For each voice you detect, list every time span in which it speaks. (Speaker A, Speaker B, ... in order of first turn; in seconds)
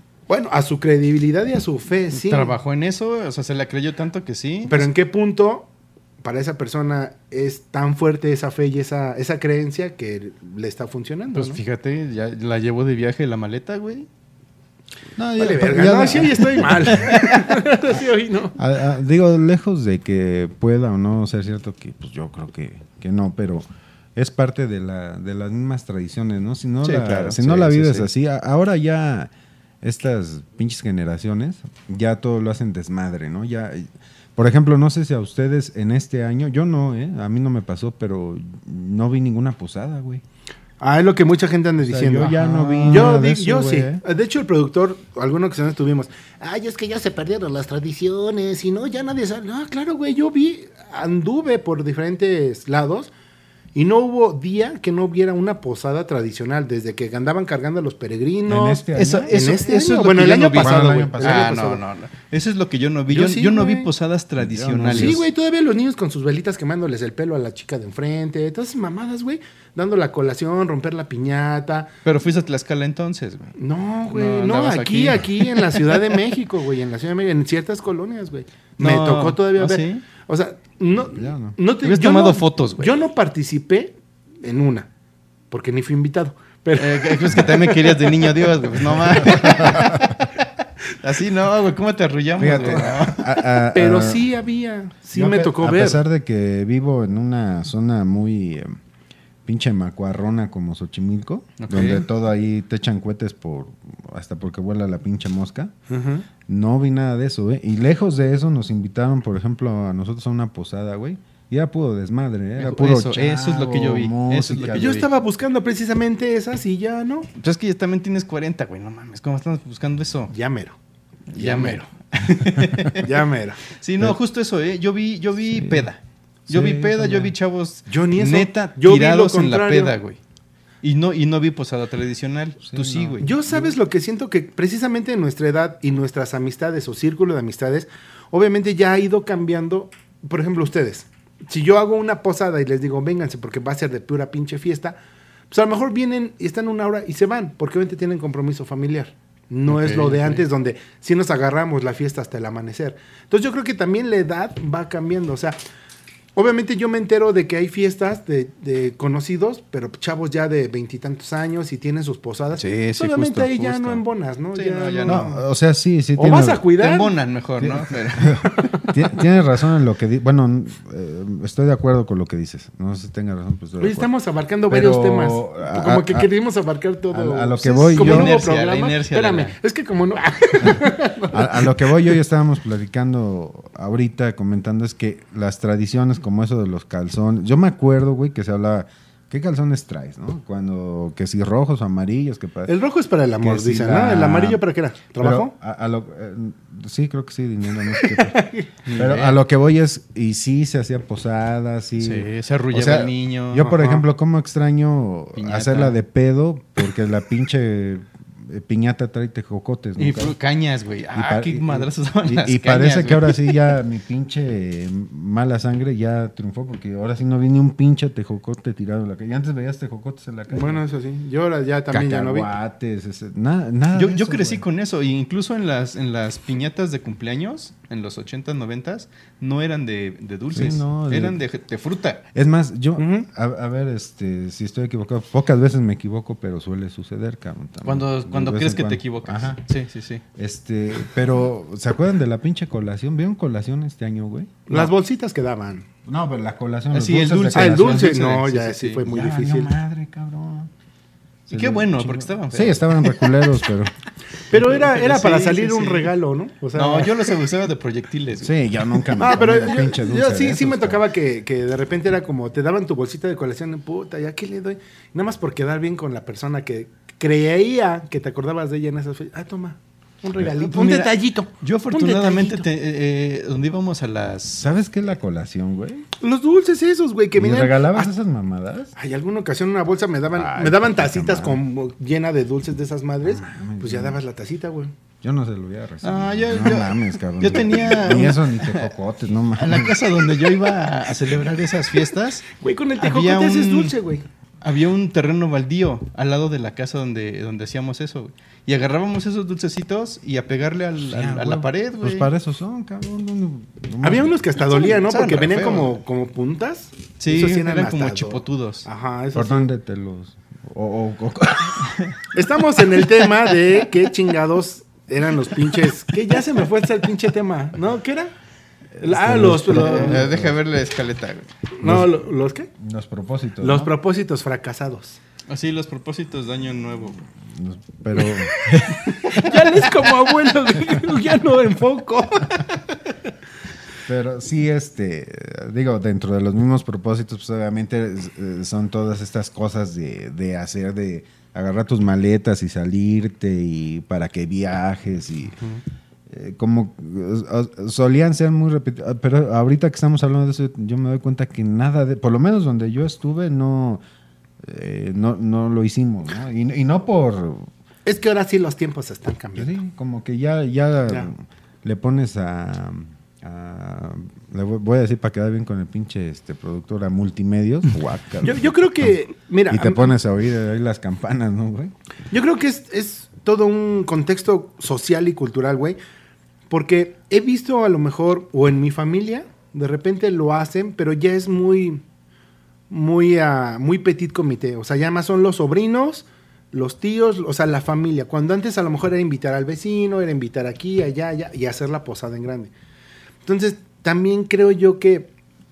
Speaker A: 0.3-2.5, 4.7-5.7, 6.2-11.6, 15.4-18.6, 40.8-53.1, 53.7-61.8, 63.1-63.9, 64.9-71.9, 73.6-84.9, 85.5-88.5, 89.3-89.7, 93.7-96.0, 105.9-106.2, 114.7-117.3, 120.3-120.8, 121.3-121.8, 123.0-123.6, 127.9-129.9, 133.2-145.0, 145.5-155.6, 156.3-165.4, 166.2-167.2, 168.6-168.8, 173.8-182.1, 192.7-195.5, 197.8-198.7, 203.6-204.0, 220.5-222.5, 233.0-233.3, 244.7-245.9, 247.5-249.7, 254.5-257.4, 259.2-272.6, 276.2-278.1, 278.9-284.9, 292.5-294.2, 304.0-309.7, 312.3-318.3, 319.0-320.3, 321.7-322.7, 323.6-325.2, 328.3-332.7, 358.0-359.7, 368.4-370.1, 372.3-376.0, 376.7-382.0, 382.9-392.7, 393.4-395.3
Speaker B: 2.1-4.9, 11.3-14.1, 17.0-17.5, 26.8-28.1, 42.4-43.1, 59.0-65.2, 72.0-73.5, 74.1-76.0, 78.8-80.0, 81.8-83.0, 86.8-90.3, 91.0-93.4, 101.6-102.0, 112.6-115.1, 117.4-120.3, 121.3-123.2, 123.7-130.2, 130.8-133.7, 149.7-150.4, 162.6-164.0, 164.5-165.3, 166.8-168.5, 177.9-179.5, 198.8-199.4, 202.0-203.7, 205.3-206.0, 210.0-213.8, 223.9-232.2, 237.8-240.2, 246.9-249.0, 251.5-253.3, 254.5-256.1, 256.7-258.5, 270.5-274.7, 286.0-288.9, 289.6-292.5, 293.0-293.9, 294.6-302.3, 304.8-305.9, 307.2-308.9, 319.7-321.5, 325.5-327.2
Speaker C: 15.2-17.1, 18.6-29.3, 29.8-40.2, 41.8-44.0, 58.5-59.4, 60.6-61.6, 64.4-65.2, 81.1-81.5, 89.2-90.2, 92.4-94.2, 95.1-98.8, 99.5-105.7, 106.5-115.0, 125.5-125.9, 126.5-127.3, 132.6-133.3, 165.0-166.6, 167.6-174.1, 174.7-176.3, 177.1-178.4, 180.6-192.7, 193.4-194.6, 195.2-210.3, 211.1-220.8, 221.9-224.6, 230.5-231.4, 232.3-239.6, 240.3-244.9, 246.0-248.2, 249.0-250.7, 251.5-253.9, 258.4-261.0, 274.6-276.1, 277.3-278.9, 280.3-281.6, 283.2-284.2, 285.2-290.0, 301.1-304.4, 309.3-312.1, 319.0-320.6, 321.8-322.2, 322.8-323.9, 327.5-329.4, 334.1-345.6, 346.3-354.0, 354.6-357.7, 359.6-369.1, 369.7-371.9